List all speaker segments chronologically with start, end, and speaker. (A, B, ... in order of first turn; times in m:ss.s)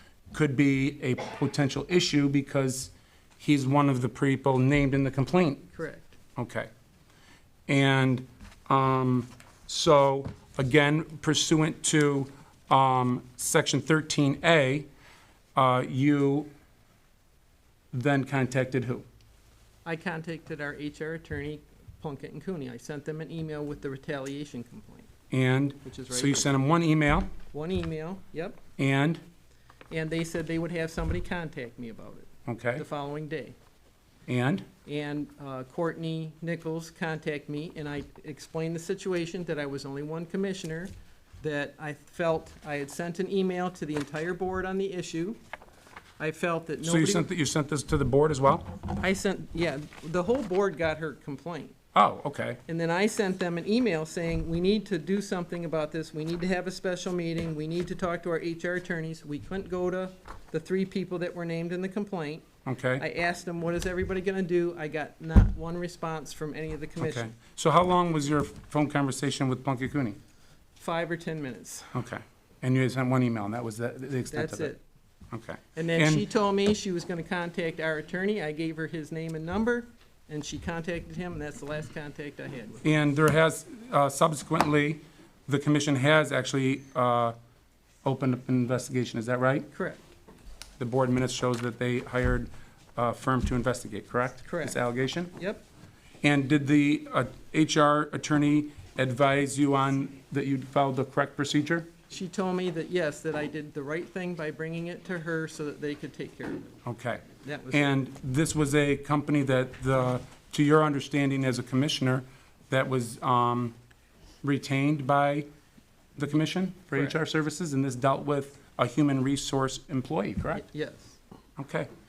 0:00.3-0:05.7 A
0:05.7-0:06.1 B
0:06.4-0:06.7 A
0:07.7-0:14.9 A
0:15.6-0:16.5 A
0:17.9-0:19.1 A
0:19.8-0:25.1 B
0:25.3-0:27.3 A
0:25.8-0:26.5 B
0:27.5-0:28.6 B
0:28.8-0:29.2 A
0:29.9-0:33.6 B
0:32.5-0:32.8 A
0:34.3-0:34.7 A
0:34.9-0:45.4 B
0:46.2-0:47.3 B
0:46.8-0:48.7 A
0:49.0-0:51.8 B
0:52.0-0:52.6 A
0:52.7-1:02.4 B
1:02.7-1:03.0 A
1:03.0-1:07.3 B
1:07.0-1:10.2 A
1:10.8-1:11.9 B
1:11.9-1:14.7 A
1:14.3-1:14.8 B
1:15.3-1:16.2 A
1:15.8-1:22.8 B
1:22.8-1:27.4 A
1:28.0-1:29.7 A
1:29.7-1:30.0 B
1:30.8-1:35.3 A
1:34.4-1:34.8 B
1:35.3-1:35.6 B
1:36.2-1:41.9 A
1:42.1-1:46.7 B
1:46.8-1:53.8 A
1:47.4-1:48.0 B
1:54.4-1:55.5 A
1:56.2-2:00.6 A
2:00.6-2:01.2 B
2:01.6-2:01.9 A